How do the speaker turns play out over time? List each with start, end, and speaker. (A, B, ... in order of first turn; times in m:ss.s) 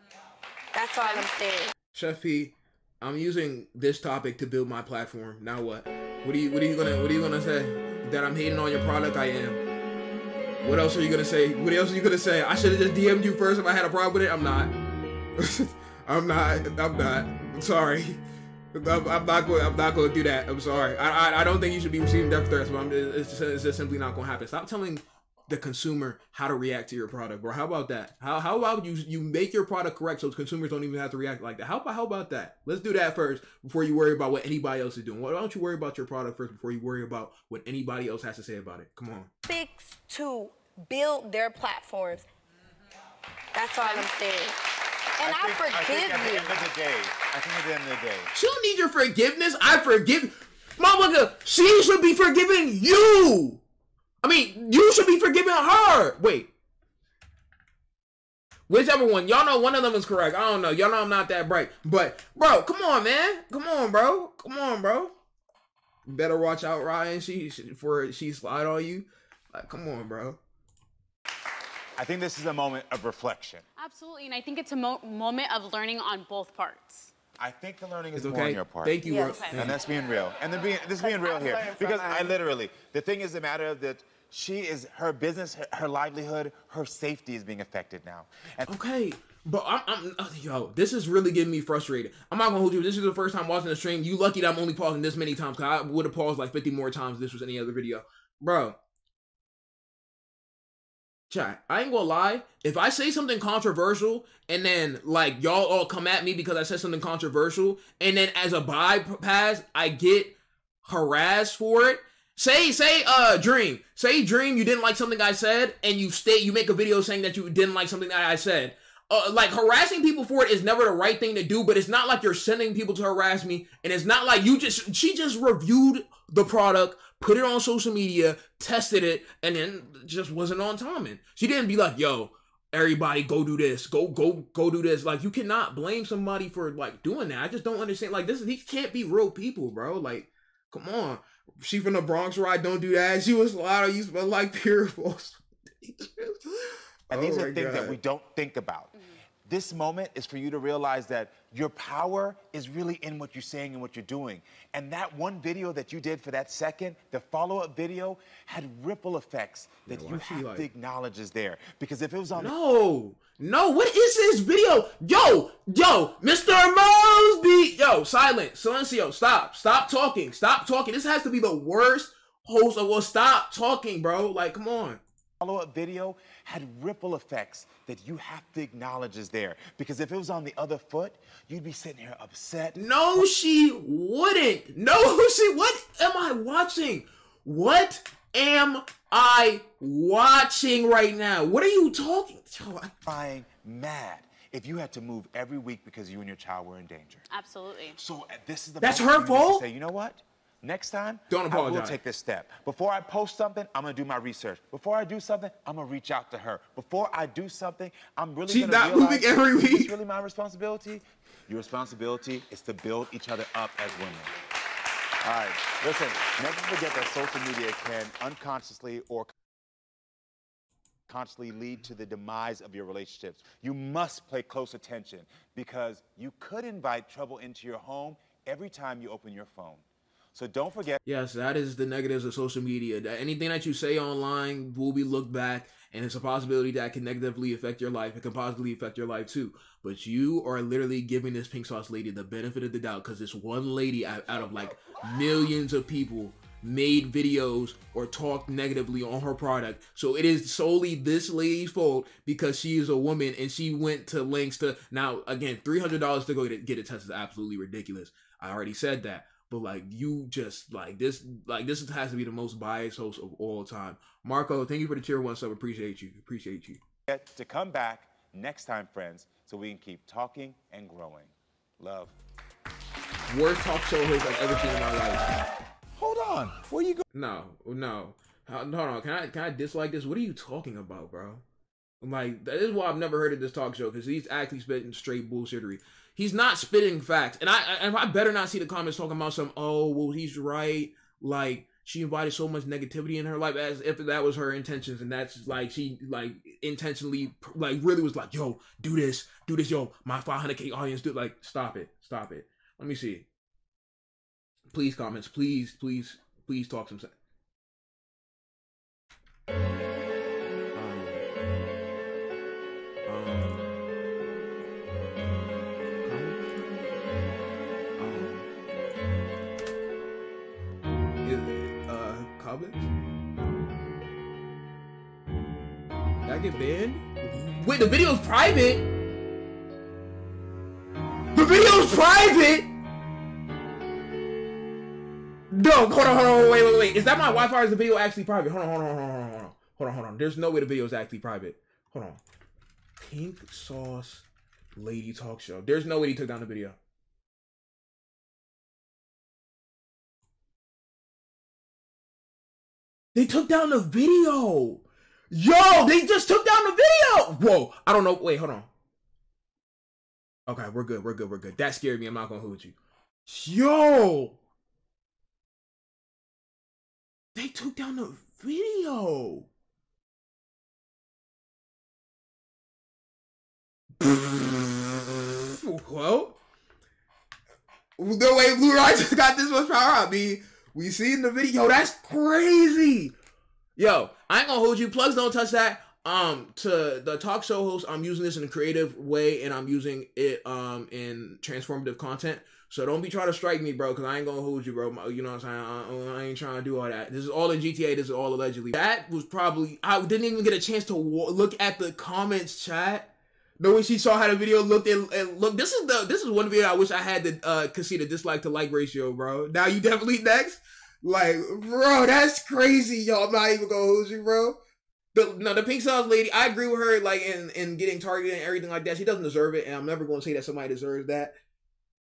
0:00.7-0:01.7 A
0:01.9-0:09.6 B
0:10.6-0:14.7 B
0:15.4-0:18.2 B
0:18.7-0:39.3 B
0:39.5-0:42.3 A
0:43.5-0:44.6 A
0:45.2-0:46.6 A
0:45.2-0:48.3 C
0:48.3-0:53.6 B
0:54.2-0:56.5 B
0:58.7-1:05.1 B
1:06.1-1:10.4 B
1:12.0-1:13.6 C
1:13.8-1:17.1 D
1:17.4-1:19.0 C
1:18.2-1:19.8 B
1:19.0-1:19.4 A
1:19.2-1:19.6 D
1:19.5-1:28.7 C
1:20.9-1:22.4 A
1:28.7-1:38.8 B
1:41.3-2:28.0 B
2:27.1-2:28.9 C
2:29.5-2:42.5 C
2:39.9-2:40.7 B
2:42.4-2:55.0 B
2:55.4-3:02.8 C
3:02.8-3:12.9 B
3:13.1-3:17.2 C
3:17.3-3:18.0 D
3:18.0-3:34.3 C
3:18.8-3:19.6 B
3:21.3-3:22.0 B
3:28.5-3:30.0 B
3:35.2-3:39.3 C
3:41.1-3:51.0 C
3:51.1-4:26.8 B
4:27.1-4:32.2 C
4:33.3-4:35.2 B
4:36.0-4:37.0 C
4:37.1-4:41.4 B
4:42.0-5:03.3 B
5:04.7-5:07.1 B
5:10.8-5:11.2 B
5:13.1-5:13.7 B
5:16.0-5:16.5 B
5:18.0-5:18.5 B
5:21.2-5:22.9 B
5:26.2-5:28.8 B
5:31.3-5:32.7 B
5:35.5-5:42.2 B
5:43.0-5:46.8 B
5:53.1-5:58.7 B
6:00.5-6:02.8 B
6:03.3-6:04.4 B
6:07.4-6:09.5 B
6:14.0-6:14.8 B
6:15.4-6:16.4 B
6:18.0-6:23.1 B
6:23.8-6:54.6 B
6:55.1-7:01.4 B